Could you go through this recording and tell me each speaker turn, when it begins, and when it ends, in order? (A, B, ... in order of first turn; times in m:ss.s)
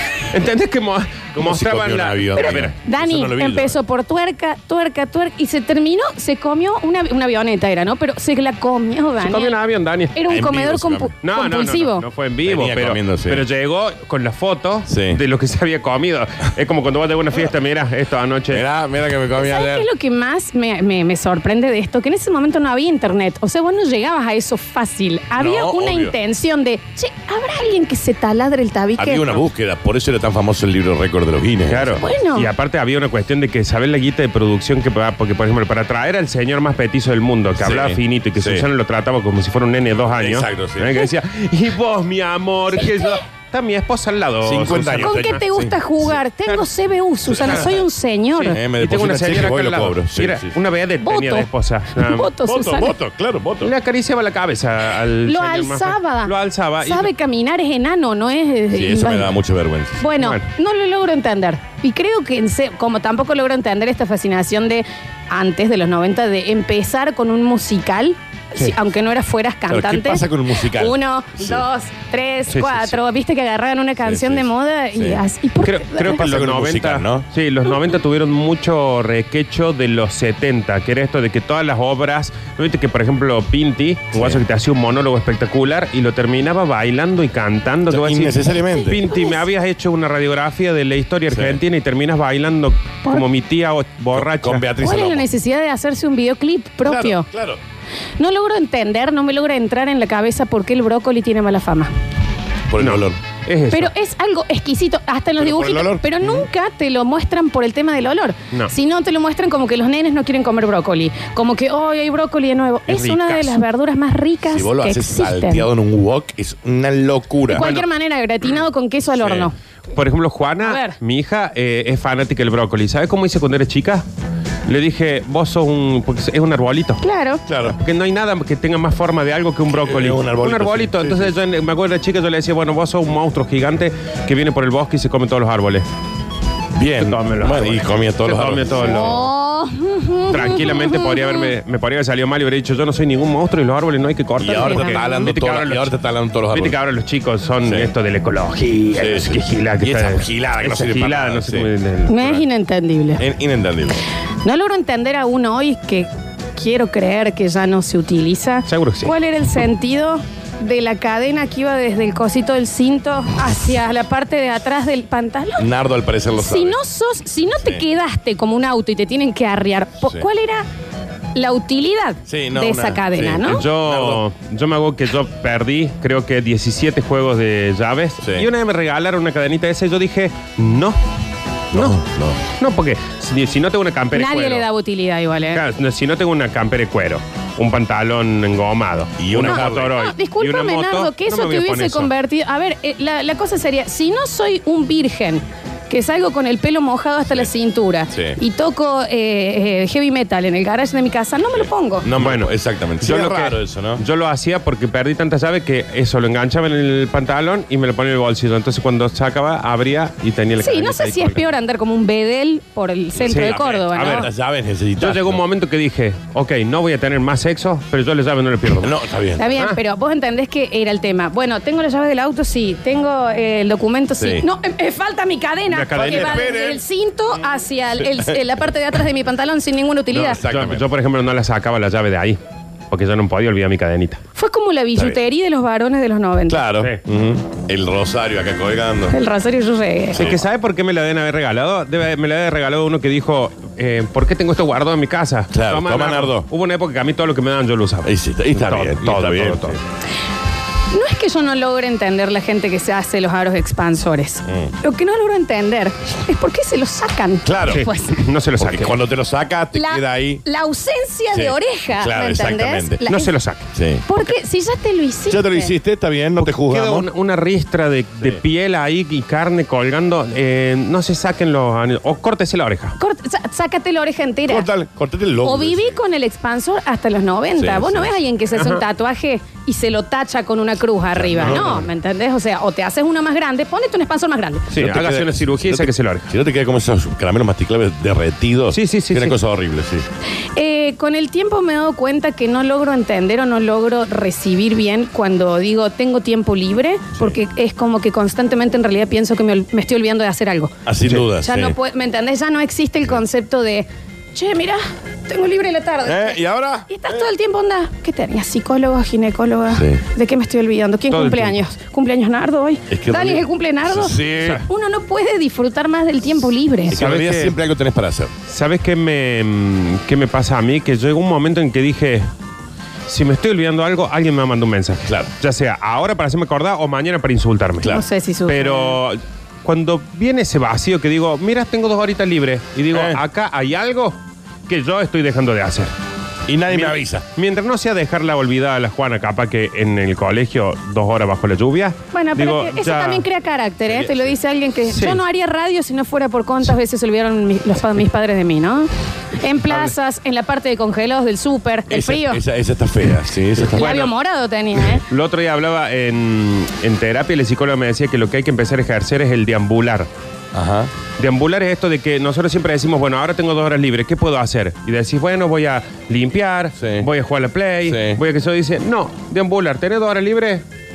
0:00.3-0:02.7 A
0:01.4-0:03.8 B
0:02.4-0:09.5 C
0:09.2-0:10.2 A
0:10.2-0:12.0 C
0:10.3-0:11.1 B
0:11.2-0:18.6 A
0:12.4-0:13.4 B
0:14.9-0:15.2 B
0:18.5-0:19.9 B
0:19.4-0:29.4 C
0:25.4-0:26.2 B
0:29.0-0:32.0 B
0:31.7-0:45.4 A
0:32.0-0:32.5 C
0:37.6-0:38.7 B
0:40.1-0:41.0 B
0:42.8-0:43.1 C
0:44.4-0:45.8 B
0:45.0-0:48.6 C
0:47.3-0:47.8 B
0:47.4-0:47.7 A
0:48.4-0:52.3 A
0:48.5-0:50.5 B
0:51.0-0:52.9 C
0:52.4-0:53.7 B
0:53.6-0:57.1 A
0:55.3-0:59.3 C
0:58.7-1:00.0 B
1:00.0-1:16.2 C
1:00.2-1:00.4 A
1:09.7-1:11.6 B
1:12.5-1:13.0 A
1:14.0-1:15.2 B
1:15.6-1:34.7 A
1:16.0-1:17.2 B
1:24.1-1:24.4 B
1:27.9-1:29.1 B
1:28.8-1:29.4 C
1:31.3-1:31.6 B
1:34.2-1:35.3 B
1:34.8-1:37.3 C
1:36.8-1:37.6 B
1:38.2-1:41.9 C
1:42.7-1:43.2 B
1:42.8-1:43.9 A
1:43.7-1:55.7 C
1:45.4-1:46.0 B
1:52.9-1:53.6 A
1:54.5-1:57.6 B
1:57.5-1:59.5 C
1:57.5-1:57.9 A
2:00.0-2:04.0 A
2:00.6-2:01.0 C
2:04.7-2:07.0 A
2:07.0-2:07.4 C
2:07.5-2:07.8 B
2:07.8-2:15.8 A
2:09.7-2:11.3 B
2:16.8-2:19.1 B
2:17.0-2:19.3 A
2:18.8-2:21.5 C
2:20.3-2:26.0 A
2:24.4-2:26.8 B
2:24.6-2:25.2 C
2:26.5-2:32.4 A
2:27.6-2:27.9 B
2:29.0-2:31.7 B
2:32.1-2:33.2 C
2:33.2-2:34.0 B
2:34.4-2:45.7 C
2:38.7-2:39.1 A
2:45.6-2:46.8 B
2:46.4-2:50.7 C
2:51.4-2:53.6 C
2:52.3-2:54.2 B
2:53.4-3:01.0 A
2:58.2-2:58.5 B
3:01.7-3:02.4 B
3:02.6-3:04.7 A
3:04.2-3:05.6 C
3:05.5-3:12.1 A
3:09.2-3:09.9 B
3:09.4-3:22.1 C
3:18.1-3:18.4 B
3:21.6-3:24.0 B
3:22.2-3:31.5 A
3:30.6-3:34.3 C
3:33.2-3:35.4 B
3:33.3-3:34.3 A
3:35.0-3:39.0 A
3:38.8-3:39.5 B
3:39.4-3:50.4 C
3:39.5-3:39.8 A
3:44.2-3:44.4 B
3:45.7-3:46.5 A
3:45.9-3:46.8 B
3:48.0-3:48.4 B
3:50.1-3:52.4 A
3:50.2-3:50.8 B
3:52.9-3:54.2 A
3:54.4-3:56.6 C
3:56.5-3:59.2 B
3:59.1-4:00.3 C
4:00.1-4:00.4 B
4:00.2-4:09.8 A
4:05.5-4:06.5 B
4:08.0-4:09.8 B
4:10.9-4:18.2 C
4:14.5-4:14.7 B
4:17.4-4:17.8 B
4:17.7-4:19.0 A
4:18.6-4:20.4 B
4:19.7-4:23.3 C
4:21.3-4:23.0 B
4:23.1-4:24.4 A
4:23.7-4:24.0 B
4:24.1-4:25.7 C
4:25.3-4:27.1 B
4:26.4-4:33.0 A
4:33.0-4:34.7 C
4:34.5-4:36.0 B
4:35.4-4:44.7 C
4:37.6-4:38.1 B
4:38.6-4:38.8 A
4:41.2-4:41.8 B
4:41.4-4:41.8 A
4:44.7-4:46.3 A
4:44.7-4:50.1 B
4:48.7-4:49.4 A
4:50.6-5:17.0 C
5:00.9-5:01.8 B
5:06.0-5:07.2 B
5:09.7-5:10.0 B
5:11.1-5:11.6 A
5:12.9-5:14.6 B
5:16.9-5:17.6 A
5:16.9-5:18.3 B
5:18.5-5:22.3 A
5:23.1-5:34.2 A
5:27.9-5:29.0 C
5:32.9-5:33.2 B
5:34.7-5:35.9 A
5:36.5-5:37.2 B
5:36.7-5:43.2 A
5:42.1-5:52.4 C
5:43.9-5:44.4 B
5:44.9-5:45.2 A
5:49.7-5:49.9 A
5:51.9-5:53.9 B
5:53.7-5:54.1 A
5:53.7-5:55.0 C
5:55.1-6:00.1 A
6:00.5-6:00.9 B
6:01.2-6:10.6 A
6:06.8-6:07.1 B
6:07.9-6:08.2 B